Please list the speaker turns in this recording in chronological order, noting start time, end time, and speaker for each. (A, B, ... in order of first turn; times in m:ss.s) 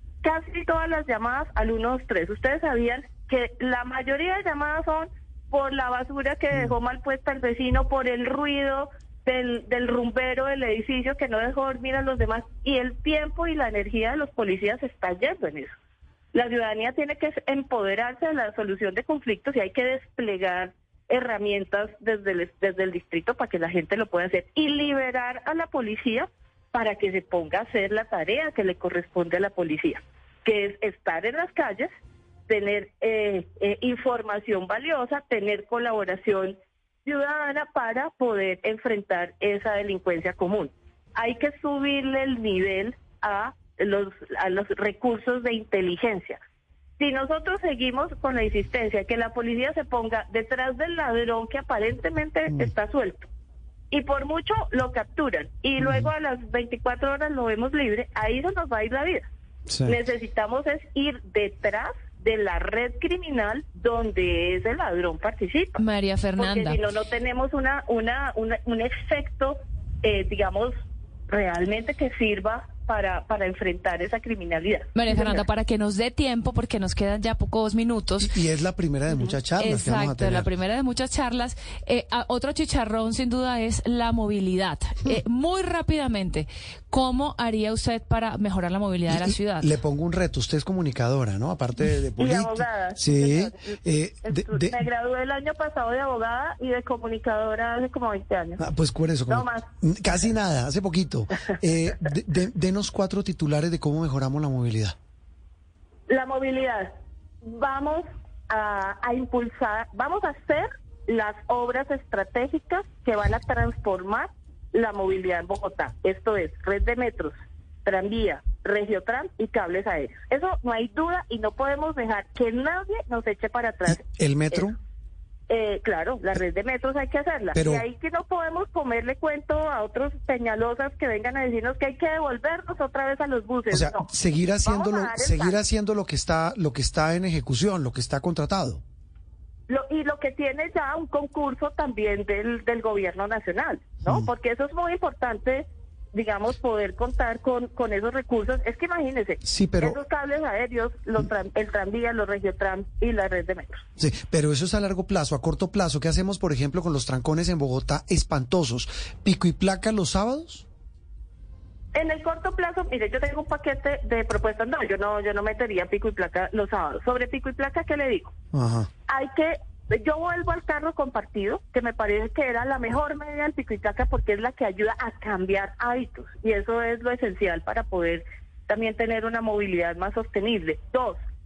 0:00.2-0:15.7 A
0:16.3-0:31.9 A
0:32.5-0:46.4 A
0:47.0-0:53.3 A
0:53.9-0:59.3 A
0:55.8-0:56.1 B
0:59.7-1:00.0 B
0:59.8-1:05.8 A
1:05.8-1:06.8 C
1:06.4-1:10.7 A
1:11.3-1:15.4 A
1:15.0-1:18.4 C
1:18.2-1:20.5 B
1:19.2-1:29.7 C
1:29.1-1:34.8 B
1:32.2-1:38.6 A
1:38.6-1:45.0 B
1:39.3-1:39.7 A
1:46.1-1:46.9 A
1:47.4-1:57.3 A
1:57.8-2:04.7 A
2:03.9-2:04.8 B
2:05.5-2:14.1 A
2:07.6-2:07.8 B
2:13.7-2:18.8 B
2:14.6-2:15.6 A
2:19.7-2:33.8 A
2:29.4-2:30.0 B
2:34.0-2:40.6 B
2:42.0-2:48.3 A
2:48.5-2:48.9 B
2:49.1-3:01.2 A